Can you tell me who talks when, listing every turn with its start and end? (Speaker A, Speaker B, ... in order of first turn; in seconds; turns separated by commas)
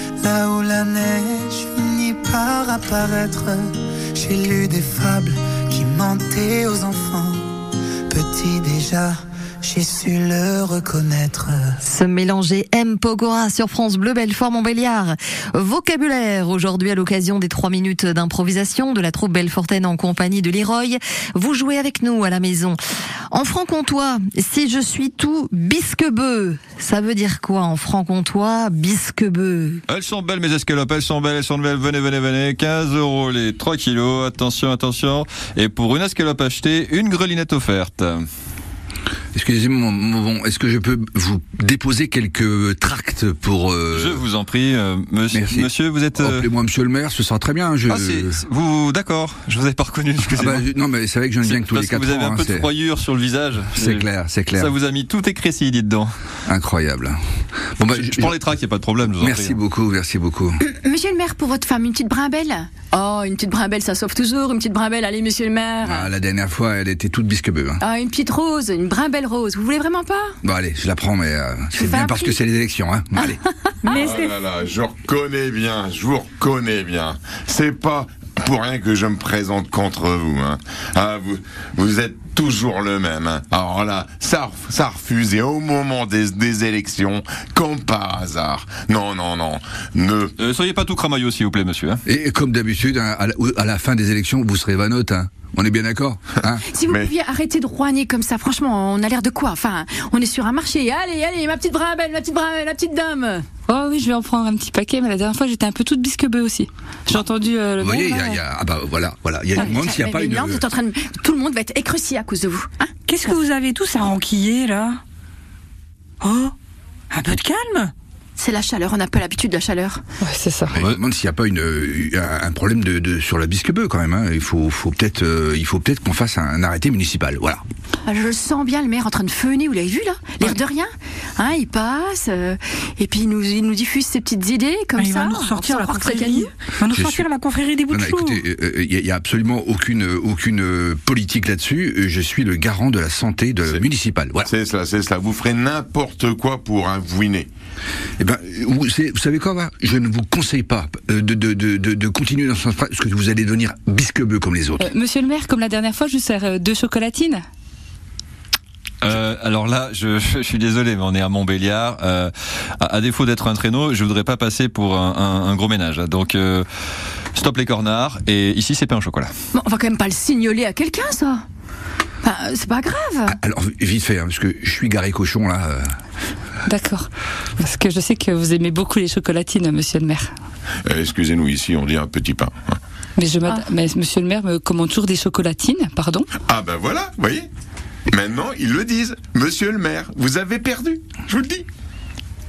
Speaker A: 0.2-7.5, Speaker A: 8.1-11.8, Speaker B: 11.8-22.8, Speaker B: 23.3-29.8, Speaker C: 29.9-38.2, Speaker D: 39.3-44.2, Speaker C: 43.9-46.5, Speaker D: 45.3-48.4, Speaker C: 47.9-50.7, Speaker D: 50.3-52.7, Speaker C: 51.4-56.1, Speaker D: 53.8-54.7, Speaker D: 56.5-57.2, Speaker D: 57.8-58.4, Speaker C: 57.9-59.6, Speaker D: 59.1-60.6, Speaker E: 60.6-66.1, Speaker D: 65.8-67.8, Speaker E: 67.8-70.3, Speaker D: 70.4-73.4, Speaker E: 71.7-72.3, Speaker F: 73.9-90.3, Speaker G: 73.9-74.3, Speaker C: 90.4-92.0, Speaker D: 92.0-96.6, Speaker E: 96.7-103.4, Speaker F: 96.8-97.1, Speaker H: 103.7-108.4, Speaker D: 107.8-110.6, Speaker E: 109.5-113.3, Speaker G: 113.1-115.0, Speaker G: 116.2-116.5, Speaker G: 117.1-117.9, Speaker E: 118.3-120.0, Speaker H: 120.2-120.8, Speaker D: 120.7-127.6, Speaker E: 128.1-136.5, Speaker G: 135.0-138.4, Speaker D: 136.9-137.3, Speaker D: 137.9-144.5, Speaker F: 144.4-147.5, Speaker D: 148.2-154.9, Speaker H: 154.8-157.4, Speaker C: 159.0-166.7, Speaker C: 167.3-169.3, Speaker E: 169.5-171.4, Speaker E: 172.2-173.4, Speaker D: 173.3-175.9, Speaker H: 176.7-177.1, Speaker H: 177.6-180.3, Speaker F: 180.8-182.8, Speaker H: 183.2-186.3, Speaker F: 186.5-187.5, Speaker F: 188.1-191.6